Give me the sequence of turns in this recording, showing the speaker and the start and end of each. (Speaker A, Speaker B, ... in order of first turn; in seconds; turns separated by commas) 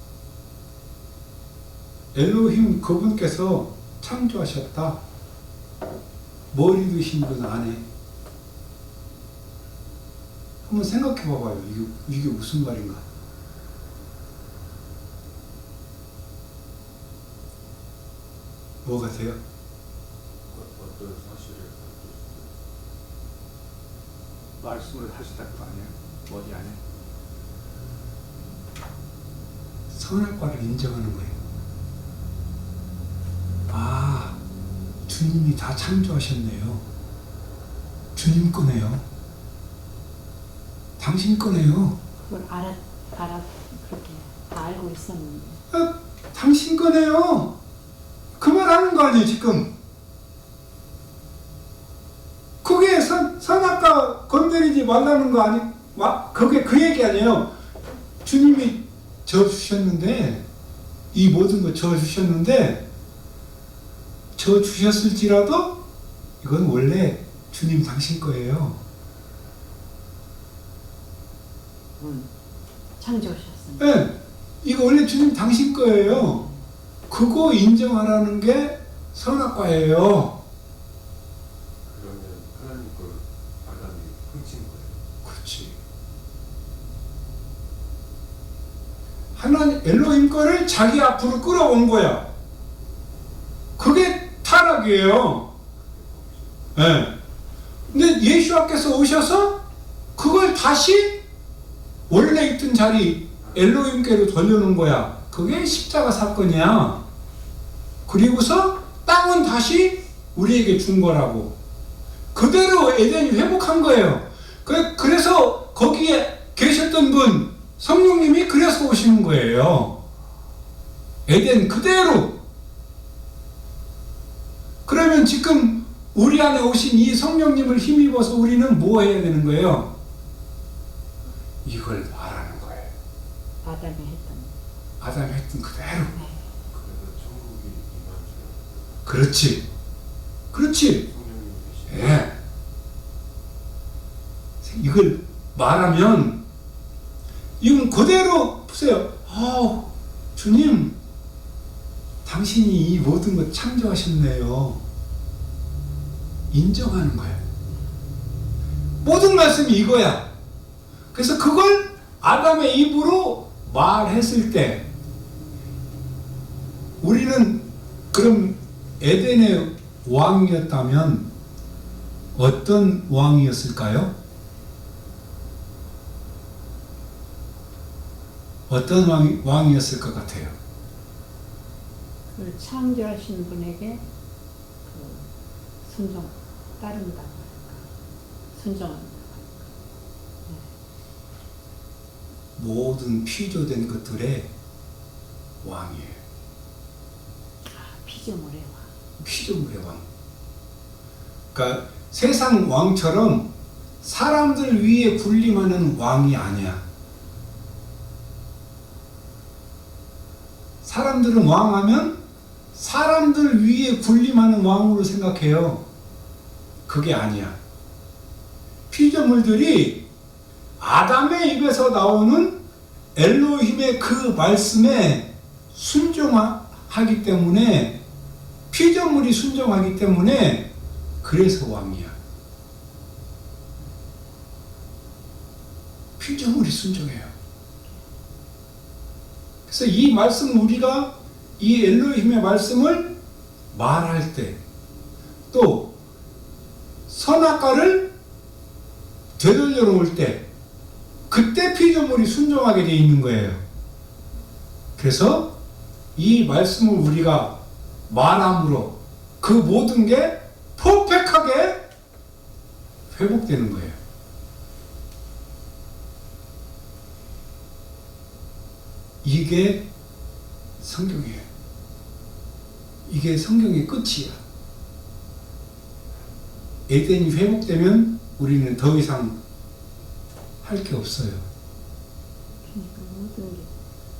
Speaker A: 2.1-5.0, Speaker A: 6.5-7.8, Speaker A: 10.7-13.0, Speaker A: 18.8-19.4, Speaker B: 20.5-22.5, Speaker C: 24.6-26.8, Speaker A: 29.9-31.4, Speaker A: 33.7-34.4, Speaker A: 35.1-36.8, Speaker A: 38.1-39.0, Speaker A: 41.0-42.0, Speaker D: 42.2-45.6, Speaker A: 45.7-47.5, Speaker A: 48.4-49.7, Speaker A: 52.6-57.5, Speaker A: 58.2-60.4, Speaker A: 61.1-62.8, Speaker A: 64.3-65.8, Speaker A: 66.4-68.8, Speaker D: 72.0-72.3, Speaker D: 73.0-74.0, Speaker A: 73.8-76.4, Speaker A: 77.1-80.4, Speaker B: 81.8-85.0, Speaker A: 85.2-85.8, Speaker A: 89.3-92.3, Speaker A: 93.8-95.5, Speaker B: 95.8-96.5, Speaker A: 96.7-97.2, Speaker A: 97.9-99.6, Speaker A: 100.2-101.2, Speaker A: 102.1-107.0, Speaker A: 108.1-111.5, Speaker A: 112.3-120.0, Speaker A: 121.2-122.4, Speaker A: 124.8-129.9, Speaker A: 131.6-132.9, Speaker D: 133.6-134.6, Speaker A: 135.0-136.1, Speaker D: 136.1-136.5, Speaker B: 136.7-139.0, Speaker A: 139.1-139.6, Speaker A: 140.5-141.1, Speaker B: 141.0-142.3, Speaker A: 141.9-142.3, Speaker A: 144.6-146.4, Speaker A: 147.6-150.9, Speaker A: 152.2-154.8, Speaker A: 156.5-157.4, Speaker A: 159.0-160.3, Speaker A: 161.1-164.9, Speaker A: 167.0-171.3, Speaker A: 172.3-174.1, Speaker A: 178.7-180.5, Speaker D: 182.3-184.0, Speaker D: 184.8-185.3, Speaker D: 185.8-187.9, Speaker D: 188.5-189.7, Speaker A: 192.6-194.5, Speaker A: 195.6-196.2, Speaker D: 197.7-198.9, Speaker A: 199.2-200.0, Speaker A: 201.5-203.5, Speaker A: 204.0-206.8, Speaker A: 210.8-212.2, Speaker A: 212.7-215.8, Speaker A: 216.9-217.6, Speaker A: 218.9-220.1, Speaker A: 220.8-222.6, Speaker A: 223.1-228.0, Speaker A: 228.7-230.7, Speaker A: 231.2-232.1, Speaker A: 236.2-237.3, Speaker A: 239.7-243.1, Speaker A: 243.7-244.6, Speaker A: 245.5-245.9, Speaker A: 247.1-248.1, Speaker A: 249.4-250.4, Speaker A: 251.3-253.6, Speaker A: 255.0-255.5, Speaker A: 256.1-261.9, Speaker A: 263.1-264.0, Speaker A: 269.2-269.9, Speaker A: 270.8-271.4, Speaker A: 273.1-274.4, Speaker A: 276.9-279.4, Speaker A: 280.6-281.4, Speaker D: 282.6-283.7